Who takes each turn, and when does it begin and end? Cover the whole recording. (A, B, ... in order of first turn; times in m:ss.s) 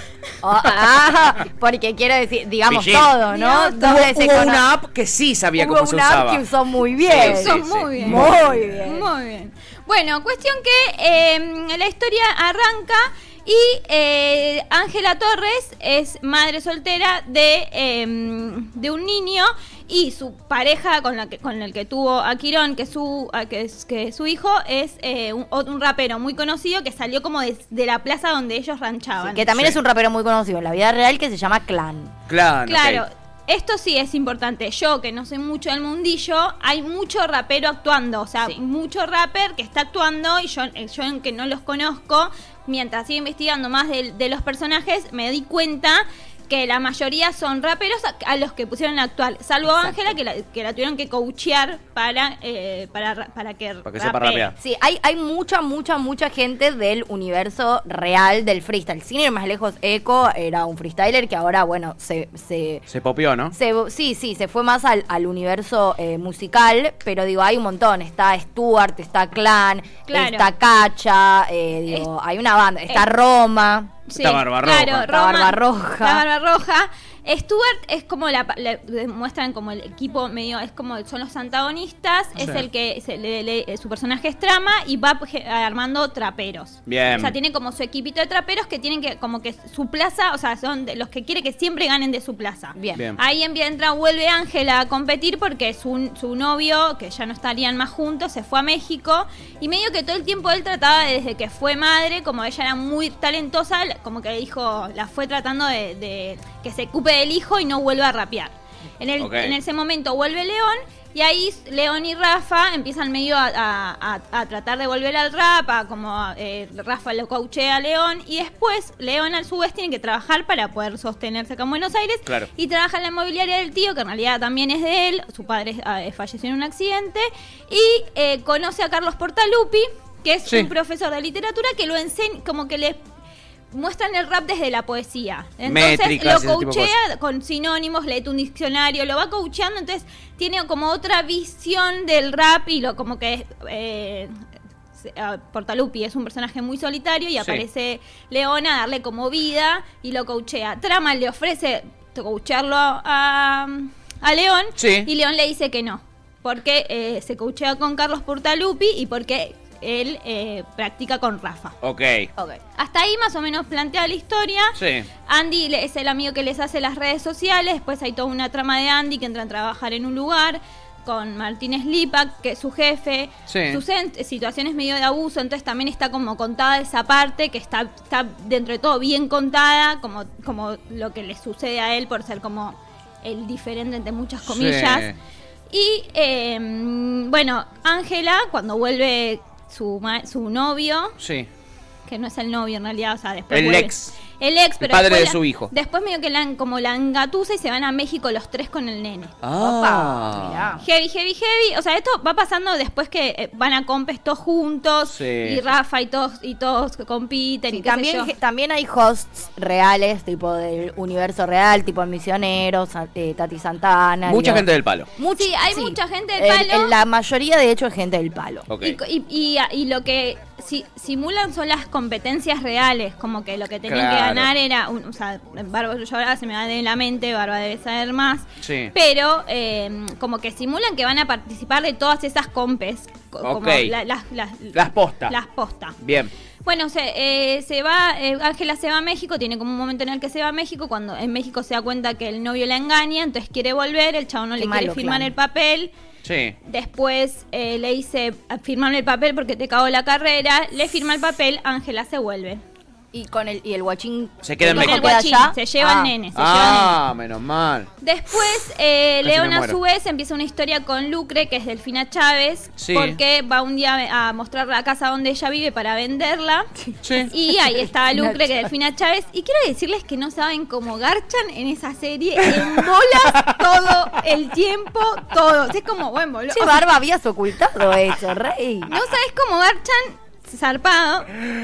0:00.4-0:04.6 A
0:02.7-0:03.2 B
0:03.3-0:04.1 C
0:03.8-0:06.4 B
0:05.6-0:09.1 A
0:07.0-0:08.6 B
0:07.2-0:29.5 C
0:29.2-0:32.1 A
0:32.3-0:33.0 B
0:32.6-0:54.5 C
0:49.6-0:50.1 A
0:53.8-0:54.6 B
0:54.6-1:02.8 A
1:02.9-1:03.5 B
1:03.5-1:13.9 A
1:10.1-1:10.5 C
1:14.1-2:13.0 C
1:14.2-1:15.0 B
1:15.0-1:16.3 A
1:22.4-1:22.6 B
1:26.9-1:27.3 B
1:32.7-1:33.0 A
1:49.2-1:49.6 B
2:13.7-2:24.3 C
2:15.6-2:16.9 B
2:25.0-2:41.7 C
2:34.8-2:35.1 B
2:41.8-2:42.3 B
2:42.8-3:05.1 C
2:44.8-2:45.1 B
2:53.5-2:53.8 B
3:04.4-3:05.2 B
3:05.7-3:11.2 C
3:11.2-3:11.5 B
3:12.0-3:19.3 C
3:13.5-3:14.2 B
3:14.8-3:15.7 B
3:19.4-3:20.7 B
3:19.6-3:20.8 A
3:20.8-3:28.3 C
3:25.1-3:25.6 B
3:27.7-3:34.6 A
3:34.2-3:35.1 B
3:35.2-3:38.6 A
3:35.3-3:37.0 C
3:38.7-3:39.0 B
3:38.8-3:56.0 C
3:43.9-3:44.5 B
3:48.6-3:48.9 B
3:53.4-3:53.9 B
3:54.7-3:55.3 B
3:56.0-3:56.3 B
3:56.6-4:05.9 C
4:04.6-4:05.3 A
4:06.2-4:06.6 B
4:06.6-4:12.6 C
4:13.1-4:16.1 A
4:14.4-4:15.2 B
4:14.7-4:17.0 C
4:16.3-4:17.9 B
4:18.0-4:26.7 C
4:19.2-4:19.8 B
4:22.8-4:23.2 B
4:27.0-4:27.3 B
4:27.2-4:36.8 C
4:27.7-4:28.7 A
4:36.5-4:38.9 A
4:38.9-4:41.3 C